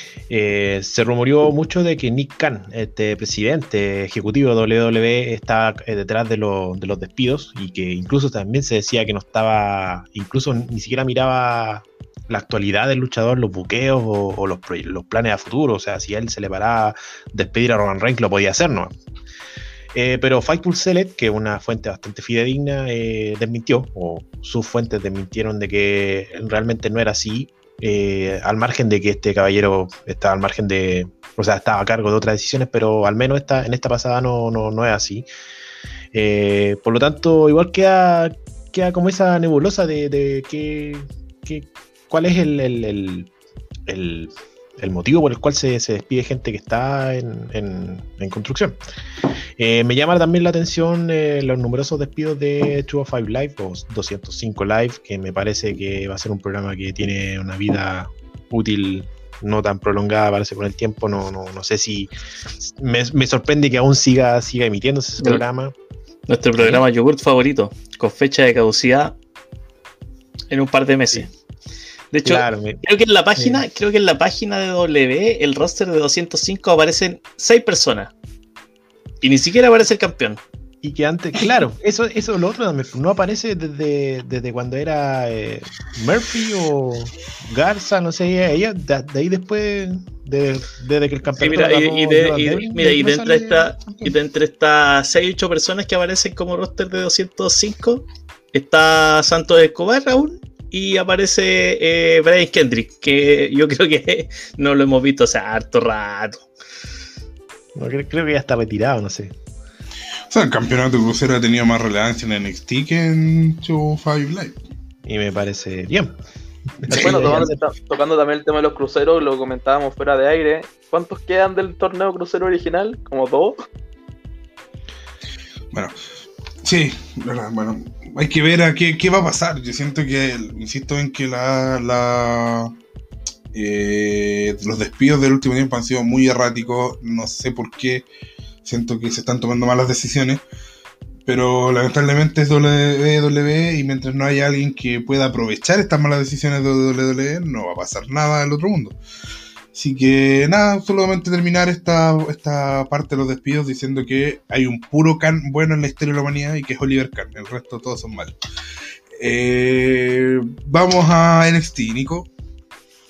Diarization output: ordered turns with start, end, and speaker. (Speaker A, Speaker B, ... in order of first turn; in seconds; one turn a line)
Speaker A: 0.3-18.9
Speaker A: 19.9-35.2
Speaker A: 36.1-43.3
Speaker A: 43.9-48.8
Speaker A: 49.6-65.7
Speaker B: 66.3-69.1
Speaker A: 66.6-66.8
Speaker B: 70.5-71.3
Speaker B: 72.1-78.1
Speaker A: 72.2-72.8
Speaker A: 73.3-73.6
Speaker B: 79.2-80.4
Speaker A: 80.8-94.1
Speaker B: 91.4-106.5
Speaker A: 107.7-109.3
Speaker C: 110.3-114.6
Speaker A: 115.0-116.2
Speaker A: 116.8-117.5
Speaker D: 116.9-123.6
Speaker C: 126.6-132.7
Speaker C: 133.5-138.1
Speaker C: 138.6-140.4
Speaker C: 141.2-149.0
Speaker C: 149.7-158.4
Speaker C: 159.2-162.3